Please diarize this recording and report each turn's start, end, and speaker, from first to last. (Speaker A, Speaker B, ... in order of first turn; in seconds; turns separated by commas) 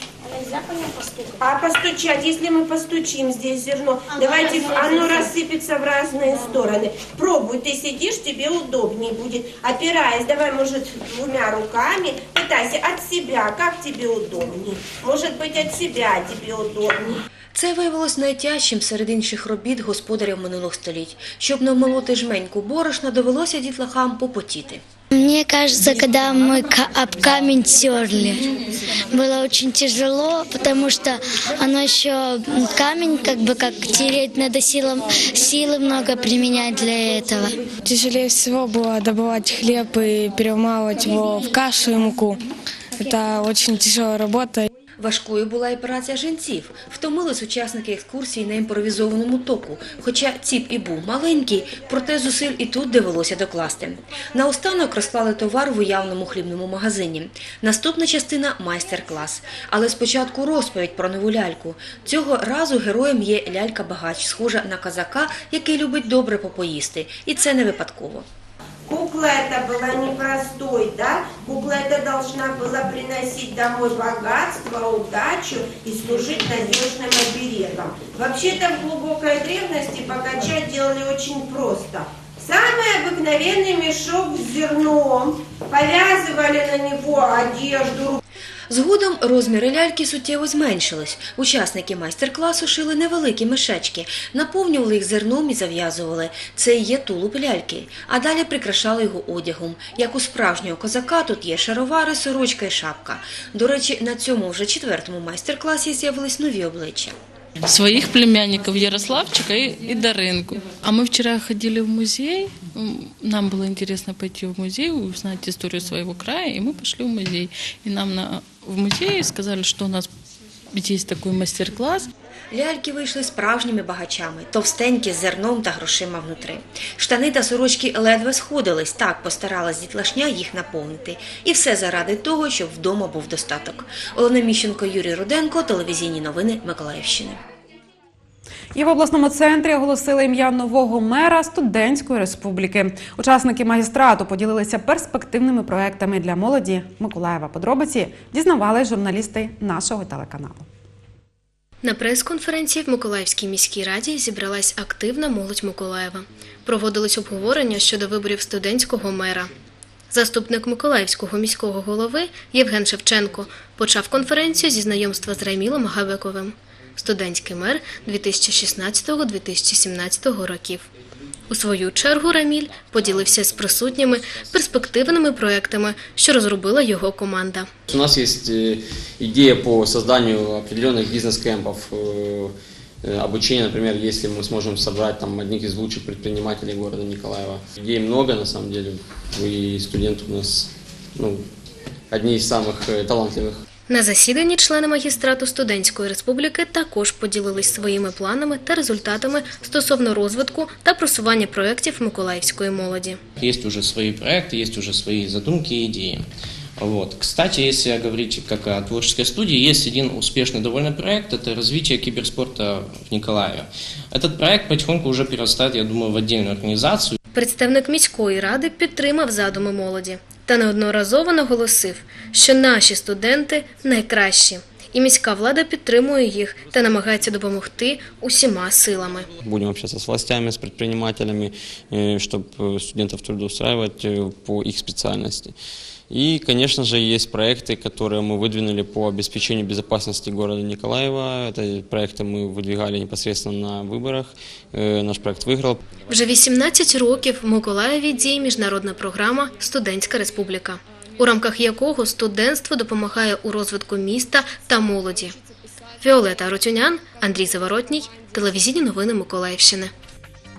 Speaker A: 1.4-17.2, Speaker B: 17.5-24.8, Speaker C: 25.1-28.4, Speaker C: 29.1-37.6, Speaker D: 37.8-42.4, Speaker D: 43.0-44.7, Speaker B: 45.0-68.2, Speaker A: 68.9-88.2, Speaker B: 88.7-107.2, Speaker E: 107.7-120.0, Speaker E: 120.8-122.0, Speaker B: 122.5-137.4, Speaker F: 138.7-150.7, Speaker G: 151.8-159.5, Speaker G: 160.1-170.9, Speaker G: 171.5-177.7, Speaker H: 177.9-191.4, Speaker H: 192.1-193.6, Speaker G: 193.9-203.2, Speaker I: 203.4-206.2, Speaker I: 206.8-217.2, Speaker G: 217.3-229.3, Speaker H: 229.4-235.5, Speaker H: 236.1-245.8, Speaker G: 246.1-255.3, Speaker G: 256.0-259.9